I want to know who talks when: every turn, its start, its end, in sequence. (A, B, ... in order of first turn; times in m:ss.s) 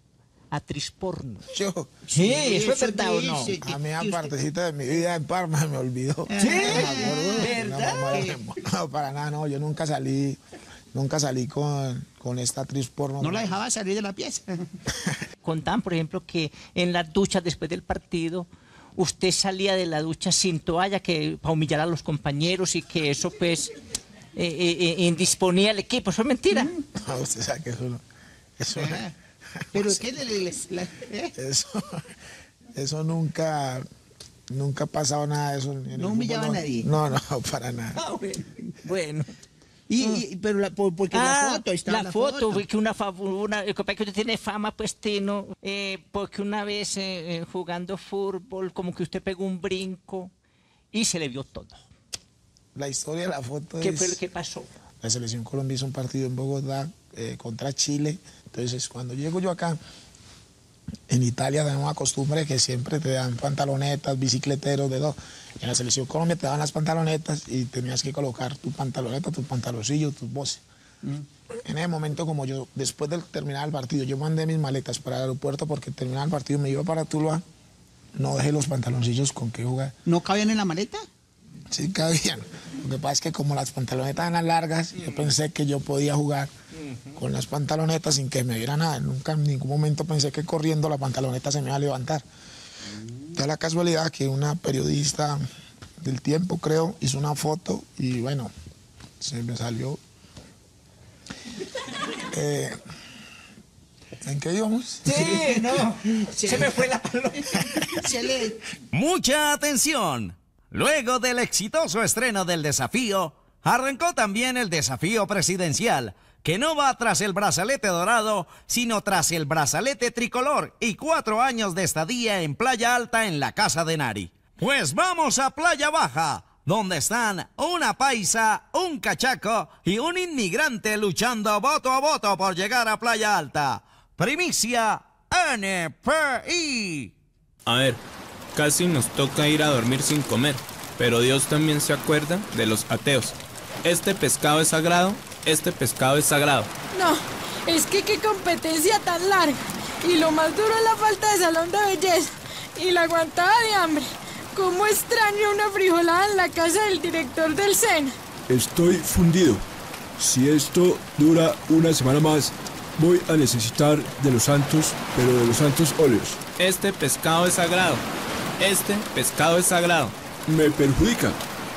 0:00.5-0:01.4 A
0:01.5-0:01.9 B
0:02.1-0:03.6 A
0:02.1-0:04.3 C
0:03.1-0:10.4 B
0:06.3-0:08.4 C
0:06.4-0:08.2 A
0:10.9-0:13.6 B
0:13.2-0:14.6 C
0:15.4-0:23.8 A
0:24.4-0:26.7 A
0:26.9-0:28.0 B
0:28.6-0:29.0 B
0:28.7-0:29.1 C
0:29.7-0:30.1 B
0:29.7-0:31.3 C
0:31.4-0:32.0 B
0:32.8-0:33.9 B
0:34.5-0:38.0 B
0:35.9-0:36.9 C
0:38.0-0:39.3 A
0:39.9-0:42.6 C
0:41.1-0:50.3 A
0:50.9-0:51.9 A
0:52.8-0:54.2 B
0:53.8-0:54.7 A
0:55.0-0:59.8 B
1:01.1-1:10.6 B
1:11.6-1:17.4 B
1:18.1-1:19.9 B
1:20.1-1:21.0 C
1:21.7-1:26.5 B
1:27.1-1:32.2 B
1:33.3-1:35.4 B
1:36.0-1:38.5 B
1:39.2-1:40.0 B
1:42.3-1:42.8 B
1:44.2-1:45.1 B
1:45.0-1:48.0 A
1:45.1-1:45.6 C
1:46.3-1:46.7 C
1:48.0-1:48.6 C
1:48.9-2:17.1 D
2:17.6-2:18.0 E
2:18.5-2:26.7 E
2:26.9-2:38.1 F
2:38.5-2:39.6 G
2:40.2-2:46.4 G
2:46.6-2:48.0 E
2:48.6-2:50.1 E
2:50.5-2:51.4 G